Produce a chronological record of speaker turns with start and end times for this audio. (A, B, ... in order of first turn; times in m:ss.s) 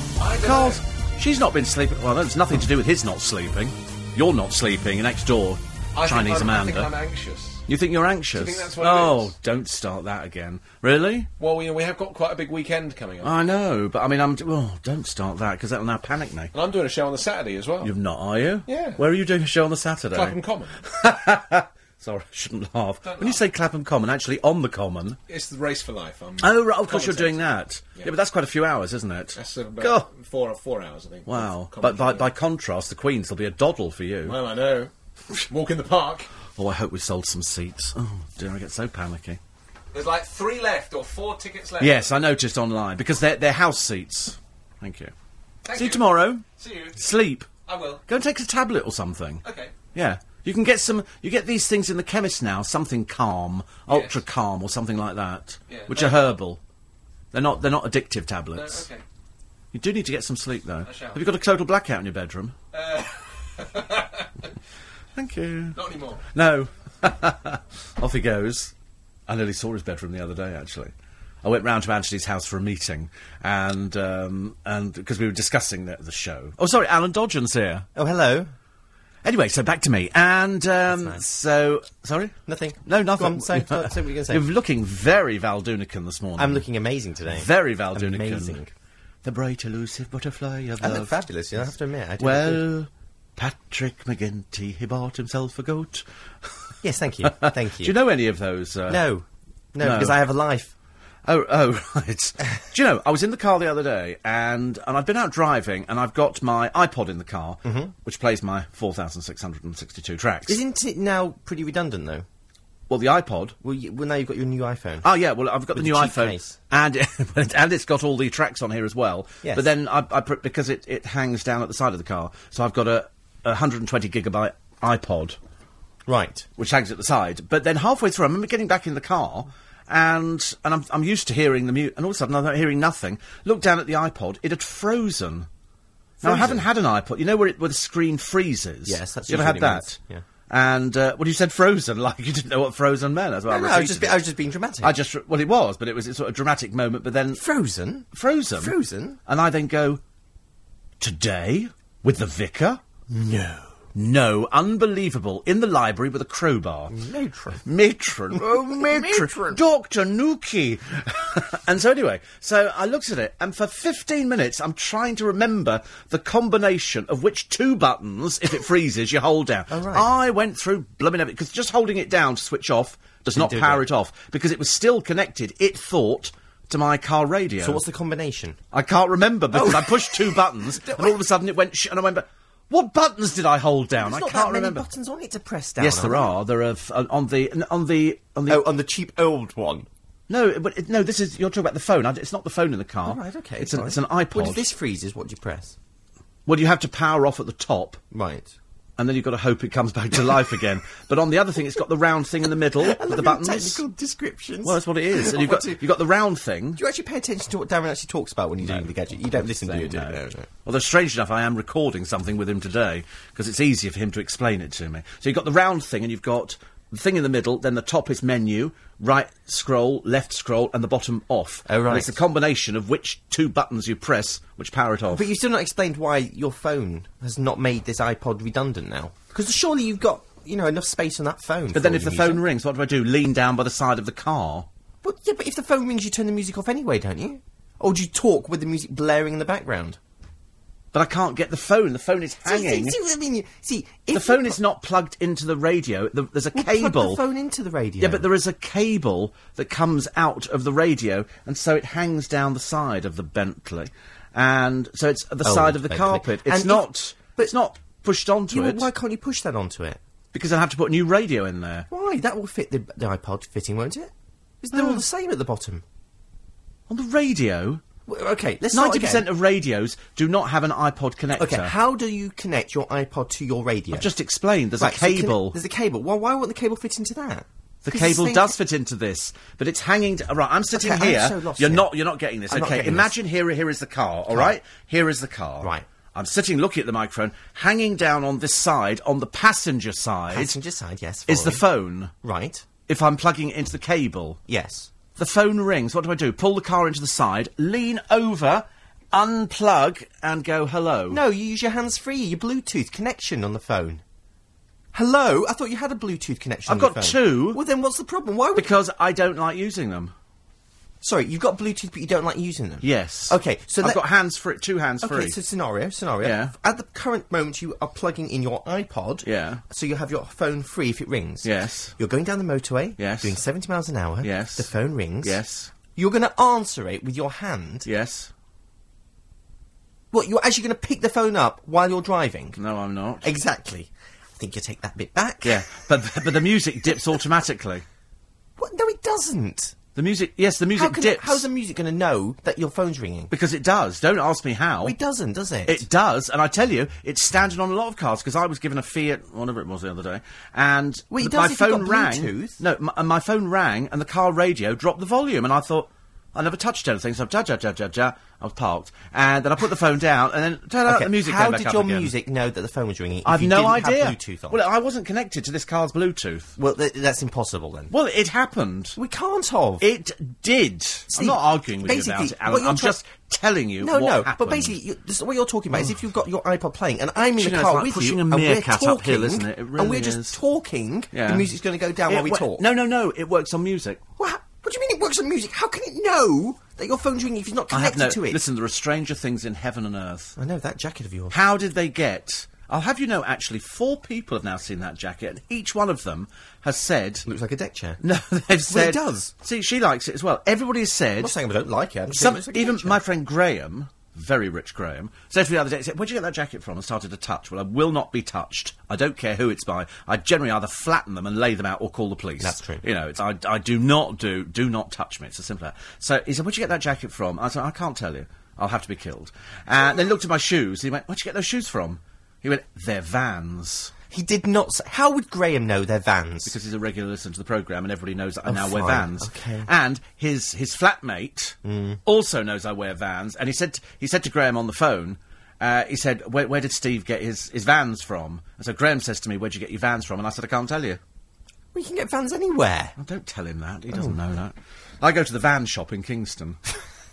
0:00.2-0:00.8 A
0:00.4-0:06.9 B
0:05.9-0:07.6 A
0:07.7-0:11.3 B
0:08.3-0:09.3 A
0:11.4-0:13.3 A
0:13.2-0:16.5 B
0:16.5-0:17.9 A
0:17.8-0:25.2 B
0:18.7-0:19.0 A
0:20.1-0:20.8 A
0:23.0-0:23.4 A
0:25.3-0:27.4 A
0:26.4-0:30.1 B
0:29.4-0:32.3 A
0:31.2-0:34.4 B
0:34.2-0:34.9 A
0:35.5-0:36.3 A
0:36.6-0:39.4 B
0:39.9-0:42.1 A
0:41.8-0:45.1 B
0:45.6-0:47.0 A
0:45.7-0:46.4 B
0:47.0-0:47.5 B
0:47.6-0:48.0 A
0:48.1-0:49.4 B
0:49.4-0:49.7 A
0:49.9-0:56.6 B
0:53.9-0:54.2 A
0:55.7-0:56.3 A
0:57.3-0:58.9 B
0:58.5-0:59.0 A
0:59.7-1:02.6 B
1:00.8-1:01.2 A
1:02.7-1:04.4 A
1:05.1-1:05.8 B
1:05.8-1:06.2 A
1:06.3-1:08.7 B
1:09.3-1:10.9 B
1:11.4-1:17.9 B
1:17.9-1:18.5 C
1:19.2-1:26.6 B
1:20.8-1:21.2 C
1:22.5-1:24.4 C
1:26.4-1:28.7 C
1:27.2-1:28.6 B
1:29.2-1:31.2 B
1:30.8-1:32.6 C
1:32.2-1:36.5 B
1:36.8-1:38.0 C
1:37.2-1:39.0 B
1:38.9-1:40.7 C
1:39.8-1:40.2 B
1:41.2-1:50.6 B
1:47.6-1:47.9 C
1:50.4-1:52.2 C
1:52.9-1:53.6 B
1:53.6-1:55.1 C
1:55.0-2:05.4 B
1:55.7-1:56.6 C
2:06.1-2:06.5 C
2:06.6-2:15.5 B
2:16.2-2:16.7 C
2:16.2-2:20.0 B
2:18.8-2:20.2 C
2:20.5-2:24.2 B
2:23.5-2:25.0 C
2:24.8-2:27.4 B
2:27.3-2:29.2 C
2:28.1-2:28.7 B
2:29.3-2:30.0 B
2:31.0-2:32.8 B
2:33.1-2:33.7 C
2:33.9-2:36.9 B
2:36.9-2:37.6 C
2:37.6-2:57.8 B
2:38.3-2:39.6 C
2:49.7-2:50.1 C
2:53.3-2:53.8 C
2:57.6-2:58.6 C
2:58.7-3:04.9 B
2:59.5-3:01.2 C
3:04.0-3:06.3 C
3:05.8-3:08.6 B
3:08.5-3:09.9 C
3:10.3-3:14.6 B
3:13.0-3:15.8 C
3:16.4-3:18.0 B
3:18.1-3:18.5 C
3:19.0-3:23.8 B
3:22.8-3:25.8 C
3:24.6-3:26.8 B
3:26.8-3:30.5 C
3:28.6-3:45.2 B
3:41.6-3:42.2 C
3:45.1-3:52.4 C
3:51.7-3:54.7 B
3:55.0-4:00.0 C
4:00.9-4:03.0 B
4:02.4-4:04.6 C
4:04.1-4:07.2 B
4:06.5-4:08.3 C
4:08.0-4:18.9 B
4:15.4-4:17.5 C
4:18.5-4:20.0 C
4:20.3-4:21.9 B
4:21.9-4:25.8 C
4:24.7-4:25.0 B
4:26.9-4:27.8 B
4:28.0-4:29.3 C
4:28.7-4:31.7 B
4:31.3-4:34.1 C
4:33.9-4:35.6 B
4:34.8-4:38.6 C
4:37.8-4:50.6 B
4:40.7-4:41.9 C
4:42.5-4:43.1 C
4:44.3-4:44.6 C
4:50.3-4:51.7 C
4:51.3-4:52.1 B
4:52.2-4:52.6 C
4:52.9-4:54.4 B
4:54.5-4:54.9 C
4:55.2-5:01.2 B
5:01.1-5:04.0 C
5:04.9-5:08.7 C
5:06.7-5:07.6 B
5:08.6-5:10.1 B
5:11.0-5:14.0 C
5:12.8-5:15.4 B
5:15.0-5:25.4 C
5:16.2-5:16.5 B
5:19.2-5:19.6 B
5:21.4-5:21.9 B
5:23.0-5:23.4 B
5:24.2-5:24.7 B
5:25.2-5:25.7 B
5:25.9-5:27.9 C
5:27.8-5:28.3 B
5:30.1-5:32.6 C
5:32.6-5:33.3 B
5:33.2-5:35.8 C
5:35.4-5:37.8 B
5:38.6-5:39.8 C
5:39.9-5:41.5 B
5:40.7-5:43.3 C
5:43.3-5:45.0 B
5:44.8-5:45.8 C
5:45.6-6:02.1 B
5:51.1-5:52.6 C
6:00.8-6:04.6 C
6:03.2-6:06.5 B
6:06.6-6:07.9 C
6:07.9-6:09.0 B
6:09.0-6:09.9 C
6:09.8-6:14.7 B
6:11.1-6:13.0 C
6:13.8-6:22.6 C
6:17.4-6:20.4 B
6:21.1-6:21.5 B
6:22.1-6:24.0 B
6:24.2-6:28.4 C
6:27.7-6:30.3 B
6:30.4-6:31.4 C
6:31.3-6:37.3 B
6:37.2-6:38.0 C
6:38.0-6:41.3 B
6:38.7-6:39.3 C
6:41.2-6:43.0 C
6:42.1-7:03.9 B
6:52.4-6:52.8 C
7:04.1-7:06.6 C
7:06.4-7:21.0 B
7:08.4-7:09.7 C
7:11.6-7:12.0 C
7:21.7-7:22.9 C
7:23.0-7:26.6 B
7:23.9-7:24.2 C